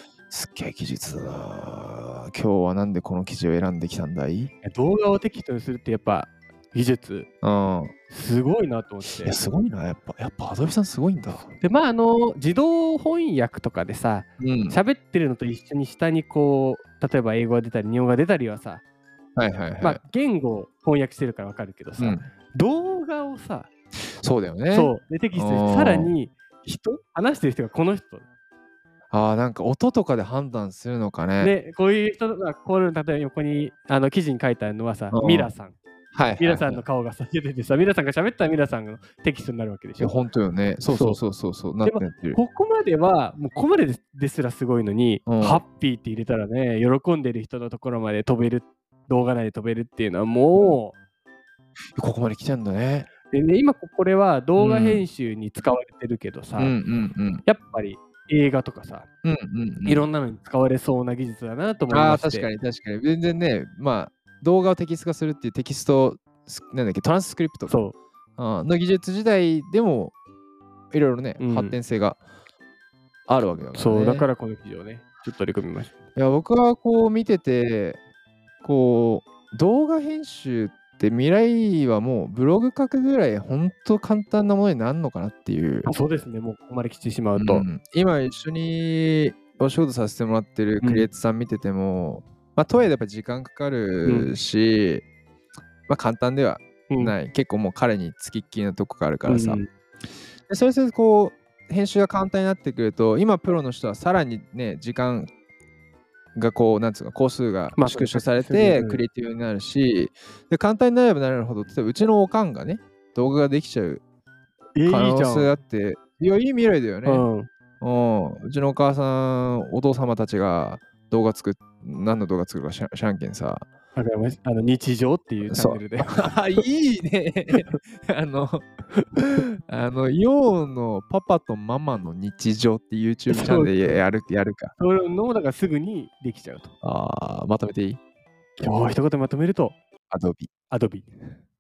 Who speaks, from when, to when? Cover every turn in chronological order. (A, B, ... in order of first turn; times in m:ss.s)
0:00.3-0:04.5 A
0:04.6-0:07.3 B
0:07.4-0:07.9 A
0:08.1-0:09.4 B
0:09.2-0:11.5 A
0:11.4-0:18.8 B
0:14.4-0:14.8 A
0:19.4-0:20.0 A
0:19.8-0:23.7 B
0:22.0-0:22.3 A
0:24.2-0:26.1 A
0:24.7-0:28.3 B
0:29.1-0:31.5 A
0:31.4-0:35.8 B
0:35.1-0:35.5 A
0:36.1-0:36.8 A
0:36.4-0:40.2 B
0:40.0-0:42.4 A
0:40.9-0:41.2 B
0:41.8-0:51.0 B
0:45.3-0:45.6 A
0:52.0-0:53.1 A
0:53.3-0:56.8 B
0:54.6-0:55.1 A
0:56.6-0:57.4 A
0:57.4-0:59.1 B
0:59.2-1:00.1 A
0:59.8-1:02.5 B
1:01.9-1:10.2 A
1:07.7-1:08.0 B
1:10.9-1:12.2 A
1:11.4-1:11.8 B
1:13.3-1:14.3 A
1:13.7-1:15.9 B
1:16.2-1:18.0 A
1:18.6-1:25.9 A
1:25.8-1:27.7 B
1:27.4-1:35.0 A
1:30.8-1:31.1 B
1:34.0-1:34.3 B
1:35.9-1:39.6 A
1:36.9-1:37.2 B
1:39.3-1:39.7 B
1:40.5-1:45.3 A
1:46.4-1:54.0 A
1:47.7-1:49.0 B
1:54.8-1:55.5 B
1:54.9-1:57.3 A
1:57.0-1:57.5 B
1:57.8-2:03.6 A
2:04.0-2:06.6 B
2:05.5-2:14.7 A
2:07.5-2:07.8 B
2:13.3-2:14.0 B
2:14.8-2:16.7 B
2:16.8-2:18.0 A
2:18.6-2:19.8 B
2:20.1-2:20.5 A
2:20.7-2:21.1 B